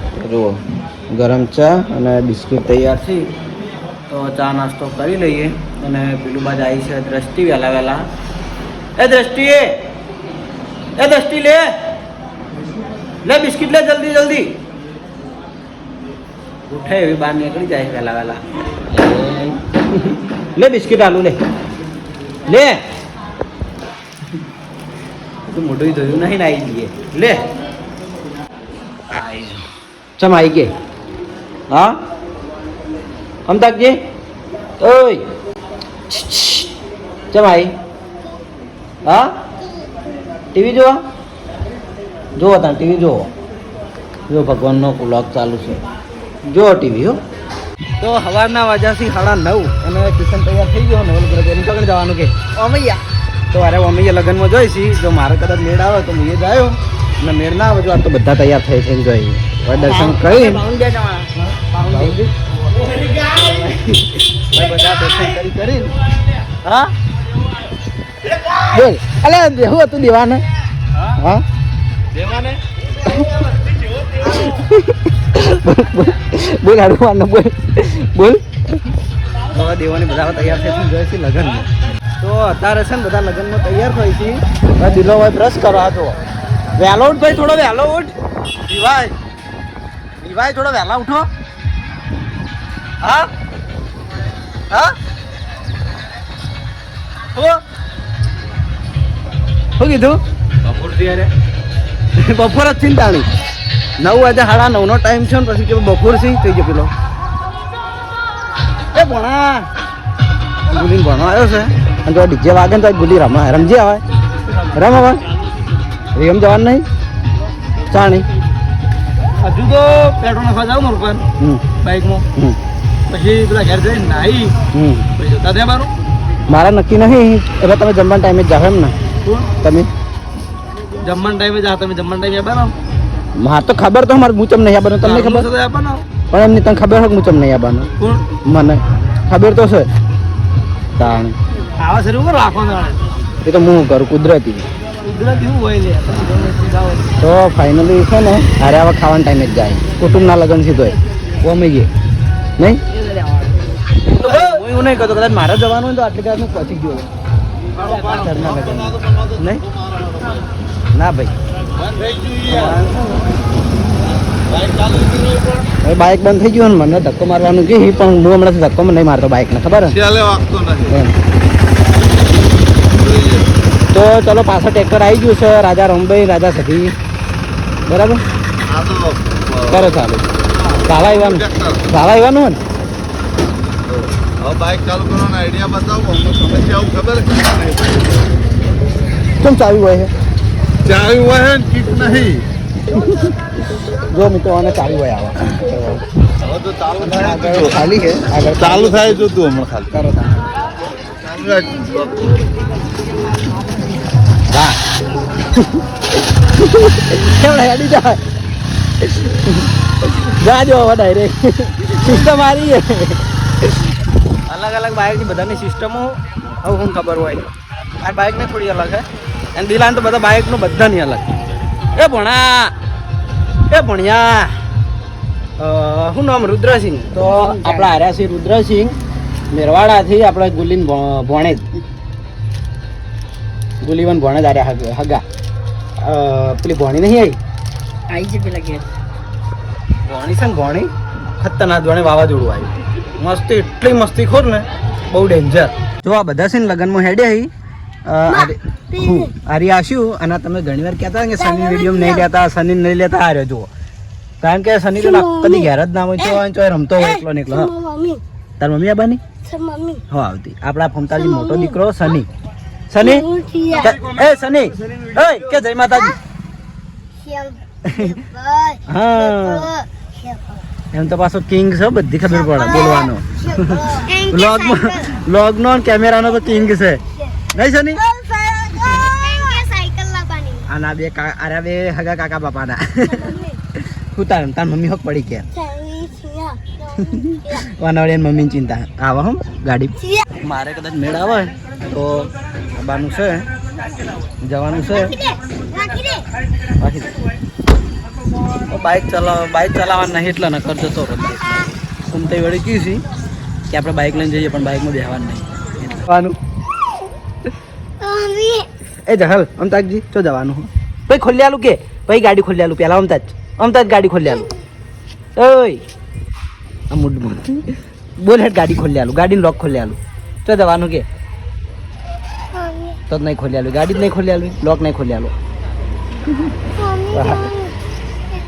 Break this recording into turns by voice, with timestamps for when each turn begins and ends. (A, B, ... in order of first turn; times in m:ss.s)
0:00.2-0:03.3 A
0:04.1-0:08.0 A
0:09.0-0:09.8 A
0:11.0-0:11.7 A
0:13.2-0:14.5 A
0:16.7-0:21.4 A
0:22.4-0:22.8 A
0:25.5-0:27.5 A
0:29.1-0:29.6 A
0:30.2-0:30.7 A
0:31.7-0:32.0 A
0:33.5-0:34.0 A
0:34.8-0:35.2 A
0:36.1-0:36.7 A
0:37.3-0:37.7 A
0:39.0-0:39.3 A
0:40.5-0:41.0 A
0:42.4-0:43.3 A
0:44.3-0:45.8 A
0:46.4-0:47.2 A
0:48.0-0:52.4 A
0:52.5-0:53.0 B
0:53.5-1:00.6 A
0:59.8-1:02.2 B
1:01.4-1:02.3 A
1:03.0-1:05.9 A
1:06.5-1:06.9 A
1:08.5-1:10.4 A
1:11.0-1:11.4 A
1:12.2-1:12.5 B
1:14.2-1:18.8 A
1:19.5-1:21.7 A
1:22.2-1:26.2 A
1:26.7-1:28.1 A
1:28.7-1:29.1 A
1:30.2-1:31.2 A
1:33.0-1:33.3 A
1:34.7-1:35.0 A
1:37.3-1:37.6 A
1:39.8-1:41.3 A
1:42.2-1:43.3 A
1:44.0-1:46.9 A
1:48.9-1:49.7 A
1:50.7-1:54.0 A
1:54.6-1:55.2 A
1:56.1-1:56.8 A
1:57.9-1:58.2 A
1:59.4-2:02.2 B
2:01.4-2:01.7 A
2:03.1-2:04.6 B
2:04.7-2:05.1 A
2:05.1-2:05.9 B
2:06.5-2:08.9 A
2:09.6-2:09.9 A
2:11.0-2:12.7 B
2:13.4-2:15.5 A
2:15.0-2:16.0 B
2:16.3-2:19.9 A
2:18.0-2:18.2 B
2:21.0-2:21.4 A
2:21.8-2:23.1 B
2:23.4-2:24.7 A
2:25.0-2:27.1 B
2:27.2-2:31.9 A
2:32.9-2:33.8 B
2:34.0-2:37.1 A
2:37.9-2:39.6 A
2:38.0-2:38.3 B
2:39.9-2:40.4 C
2:40.9-2:41.3 A
2:41.8-2:42.7 C
2:42.4-2:43.1 A
2:44.5-2:45.7 C
2:45.8-2:50.0 A
2:49.9-2:50.9 C
2:50.9-2:51.1 A
2:53.0-2:53.5 C
2:53.9-2:56.9 A
2:57.9-2:58.2 A
2:58.6-2:59.8 C
2:59.7-3:02.6 A
3:01.0-3:01.8 C
3:03.9-3:08.2 C
3:09.3-3:10.1 A
3:10.8-3:12.5 C
3:12.9-3:13.3 A
3:14.0-3:16.0 A
3:16.4-3:17.7 C
3:17.0-3:19.3 A
3:18.6-3:19.9 C
3:19.9-3:20.4 A
3:21.2-3:22.3 C
3:24.5-3:24.8 A
3:25.4-3:25.8 A
3:26.5-3:28.2 A
3:29.0-3:33.8 A
3:34.5-3:41.3 A
3:41.9-3:42.7 A
3:43.7-3:44.6 A
3:45.6-3:49.0 A
3:47.4-3:47.8 B
3:49.5-3:51.7 A
3:53.8-3:55.2 A
3:56.0-3:57.4 A
3:58.1-3:58.8 C
3:58.1-3:58.8 B
4:00.0-4:07.5 A
4:08.0-4:13.7 A
4:08.3-4:09.3 D
4:11.4-4:12.2 D
4:14.4-4:17.7 A
4:15.0-4:15.7 D
4:17.0-4:18.2 D
4:18.6-4:19.2 A
4:19.4-4:20.0 D
4:20.1-4:22.3 A
4:21.3-4:21.8 D
4:22.9-4:26.2 A
4:23.0-4:24.0 D
4:27.2-4:30.6 D
4:27.8-4:28.2 A
4:28.9-4:29.7 A
4:30.9-4:37.0 A
4:32.5-4:35.2 D
4:37.5-4:38.0 A
4:37.9-4:40.6 D
4:40.7-4:45.5 A
4:43.1-4:43.6 D
4:45.5-4:47.6 D
4:47.0-4:53.5 A
4:54.4-4:55.3 A
4:54.9-4:56.2 D
4:56.8-4:57.1 A
4:58.6-5:01.5 A
5:02.1-5:03.0 A
5:03.7-5:06.4 A
5:08.0-5:08.7 D
5:09.0-5:14.5 A
5:15.4-5:15.8 A
5:16.9-5:21.0 A
5:22.5-5:23.0 D
5:23.1-5:25.3 A
5:26.7-5:27.7 D
5:27.1-5:27.5 A